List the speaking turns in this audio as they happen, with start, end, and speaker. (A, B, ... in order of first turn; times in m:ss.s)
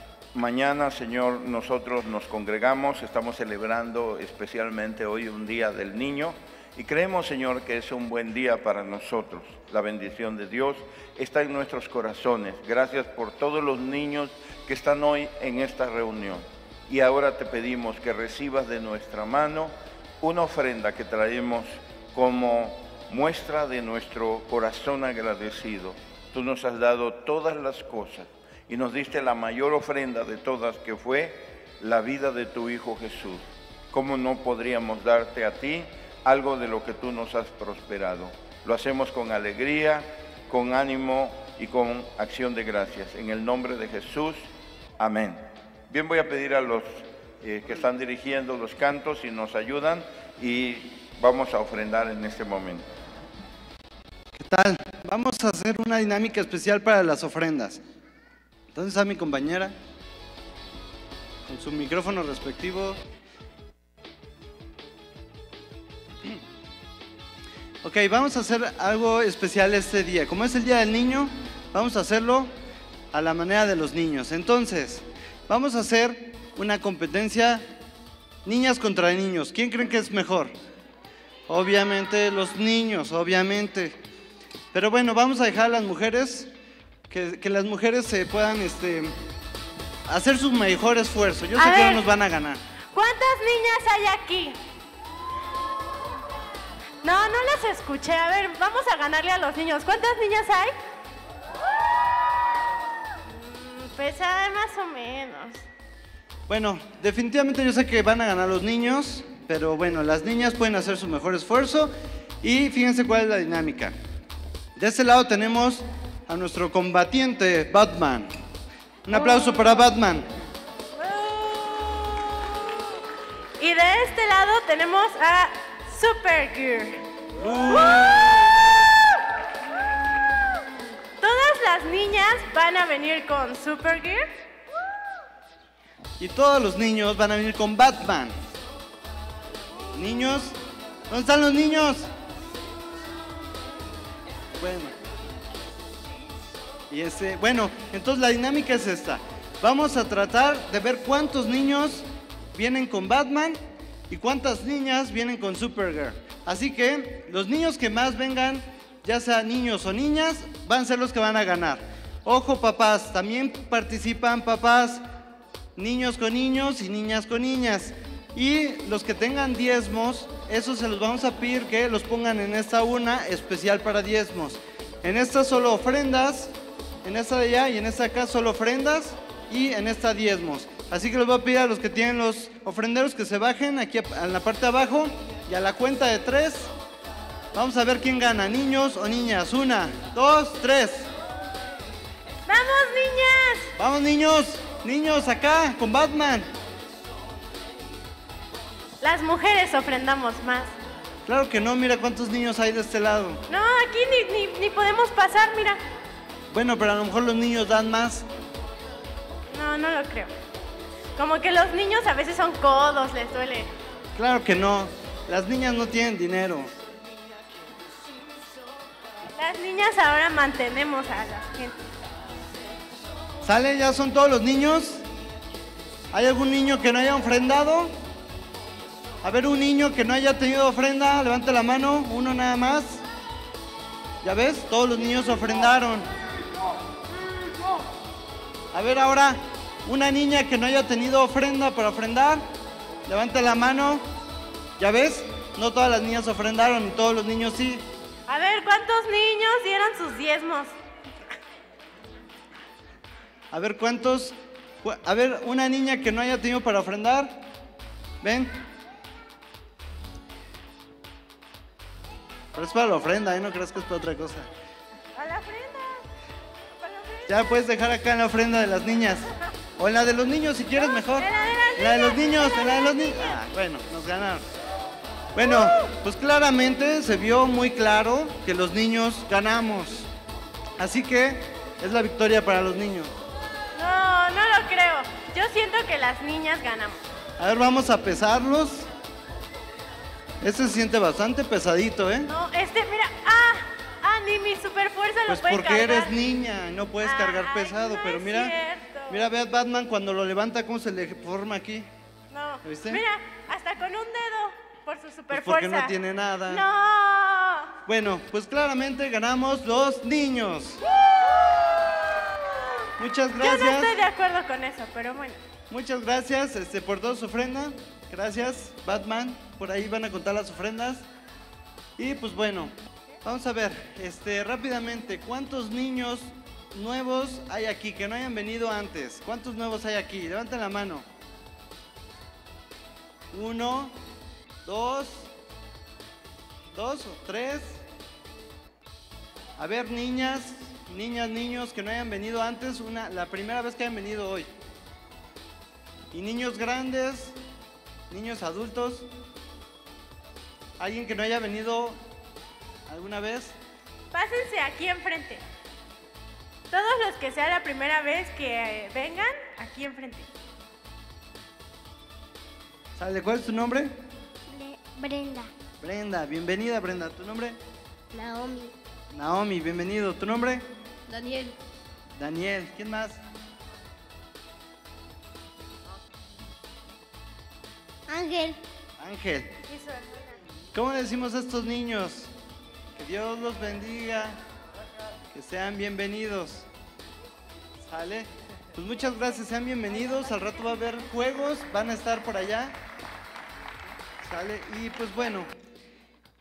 0:00.3-0:52.9 A
0:54.4-0:57.8 B
0:58.7-0:59.8 B
1:01.4-1:03.0 B
1:07.8-1:12.5 B
1:13.1-1:17.7 B
1:18.4-1:20.6 B
1:21.5-1:24.0 B
1:24.7-1:26.5 B
1:27.1-1:29.2 B
1:30.1-1:32.6 B
1:31.6-1:32.0 C
1:32.9-1:34.6 C
1:37.0-1:40.7 C
1:43.2-1:45.7 C
1:46.5-1:54.0 B
1:54.8-1:58.3 B
1:59.1-2:00.3 B
1:59.1-1:59.9 C
2:00.9-2:02.8 C
2:03.6-2:07.1 C
2:07.3-2:08.4 B
2:07.6-2:08.9 C
2:11.2-2:14.4 C
2:16.2-2:18.4 B
2:19.9-2:20.6 B
2:21.1-2:22.1 B
2:24.6-2:25.0 B
2:26.9-2:45.0 B
2:45.8-3:06.7 B
3:07.5-3:11.1 B
3:12.5-3:13.7 C
3:13.8-3:16.5 B
3:19.0-3:20.7 C
3:21.3-3:23.4 B
3:23.5-3:25.8 C
3:26.5-3:28.3 B
3:29.5-3:30.3 C
3:31.2-3:33.7 C
3:34.2-3:36.7 B
3:39.3-3:41.9 C
3:43.4-3:45.0 B
3:46.1-3:48.0 B
3:49.2-3:53.0 B
3:54.2-3:56.1 B
3:58.7-4:02.5 B
4:03.1-4:04.1 B
4:04.8-4:07.8 B
4:08.3-4:10.7 C
4:13.5-4:17.4 B
4:18.2-4:18.6 B
4:22.6-4:24.5 B
4:25.2-4:26.0 C
4:26.7-4:27.6 C
4:27.3-4:29.3 B
4:29.8-4:34.4 B
4:30.8-4:33.4 C
4:35.4-4:40.1 B
4:35.4-4:35.9 C
4:40.8-4:43.1 B
4:43.8-4:47.0 C
4:47.4-4:48.9 B
4:50.4-4:52.3 B
4:52.3-4:56.2 C
4:55.3-4:58.6 B
4:57.0-4:59.2 C
4:59.1-5:01.9 B
5:02.3-5:05.9 C
5:02.6-5:03.0 B
5:05.3-5:06.6 B
5:06.5-5:07.7 C
5:07.9-5:10.8 B
5:10.9-5:12.3 C
5:13.0-5:13.9 B
5:13.4-5:15.4 C
5:15.7-5:21.1 B
5:22.0-5:31.0 B
5:33.3-5:34.0 B
5:34.6-5:35.3 B
5:36.7-5:37.8 B
5:39.6-5:44.5 B
5:46.1-5:47.4 B
5:48.1-5:49.1 B
5:50.8-5:52.0 B
5:52.9-5:53.6 B
5:54.1-5:55.4 C
5:56.7-6:00.3 C
6:03.0-6:04.0 B
6:04.5-6:05.5 D
6:05.8-6:07.6 B
6:08.1-6:08.7 D
6:09.1-6:10.6 B
6:12.2-6:13.2 B
6:18.1-6:18.5 D
6:19.0-6:19.6 B
6:20.7-6:22.3 B
6:23.0-6:24.4 B
6:25.3-6:26.7 B
6:27.8-6:32.8 B
6:34.2-6:35.5 B